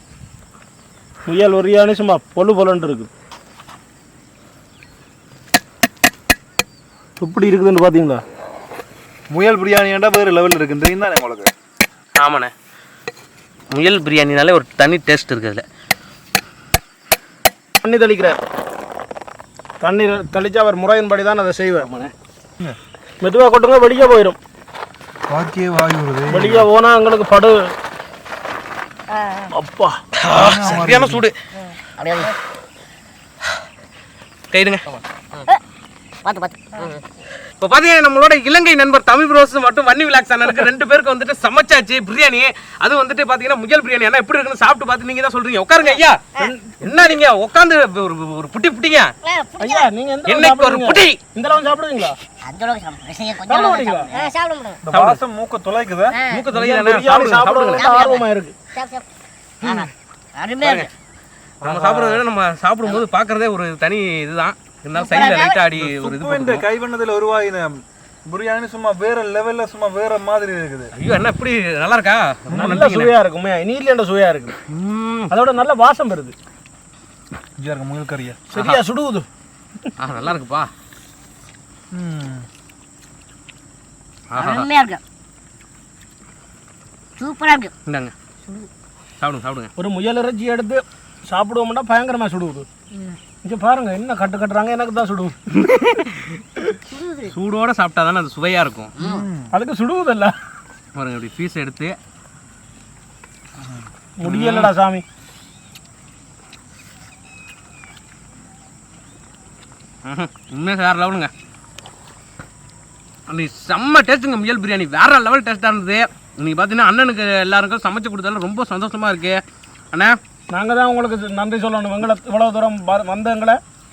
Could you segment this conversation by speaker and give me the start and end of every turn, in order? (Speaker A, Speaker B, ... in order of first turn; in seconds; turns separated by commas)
Speaker A: 1.2-3.1, Speaker A: 7.2-8.2, Speaker B: 9.3-11.5, Speaker C: 12.2-12.5, Speaker C: 13.7-15.6, Speaker A: 17.8-18.4, Speaker A: 19.8-21.9, Speaker C: 21.8-22.1, Speaker A: 23.2-24.4, Speaker B: 25.3-26.7, Speaker A: 26.3-27.6, Speaker A: 29.5-30.0, Speaker C: 30.2-31.3, Speaker B: 30.3-31.2, Speaker D: 32.0-32.3, Speaker C: 34.5-34.8, Speaker D: 36.2-37.0, Speaker C: 37.6-46.2, Speaker A: 46.4-47.0, Speaker C: 46.8-49.1, Speaker D: 49.2-49.9, Speaker A: 49.6-52.2, Speaker C: 50.3-51.2, Speaker D: 52.4-54.8, Speaker A: 53.5-54.2, Speaker B: 54.8-56.2, Speaker C: 54.9-55.2, Speaker C: 56.2-57.9, Speaker A: 56.5-58.5, Speaker B: 57.0-57.5, Speaker D: 57.7-58.2, Speaker D: 58.7-59.0, Speaker D: 59.6-60.9, Speaker C: 60.6-60.9, Speaker C: 61.6-66.6, Speaker A: 61.7-62.1, Speaker D: 65.0-65.5, Speaker B: 65.7-70.9, Speaker C: 71.0-73.1, Speaker B: 72.5-72.9, Speaker A: 72.5-74.5, Speaker C: 74.7-75.3, Speaker A: 75.3-76.3, Speaker B: 77.6-78.4, Speaker A: 78.5-79.2, Speaker C: 78.5-78.8, Speaker C: 80.0-80.7, Speaker B: 81.9-82.5, Speaker C: 84.3-84.7, Speaker D: 84.4-85.0, Speaker D: 87.2-87.7, Speaker C: 87.9-88.1, Speaker C: 89.2-89.7, Speaker A: 89.8-92.7, Speaker A: 93.4-95.3, Speaker C: 95.7-96.4, Speaker D: 96.9-97.3, Speaker C: 97.3-98.9, Speaker B: 99.0-99.5, Speaker A: 99.5-100.3, Speaker C: 101.0-102.0, Speaker A: 104.2-105.0, Speaker C: 104.2-104.7, Speaker C: 110.0-111.3, Speaker C: 113.3-119.4, Speaker A: 120.5-123.6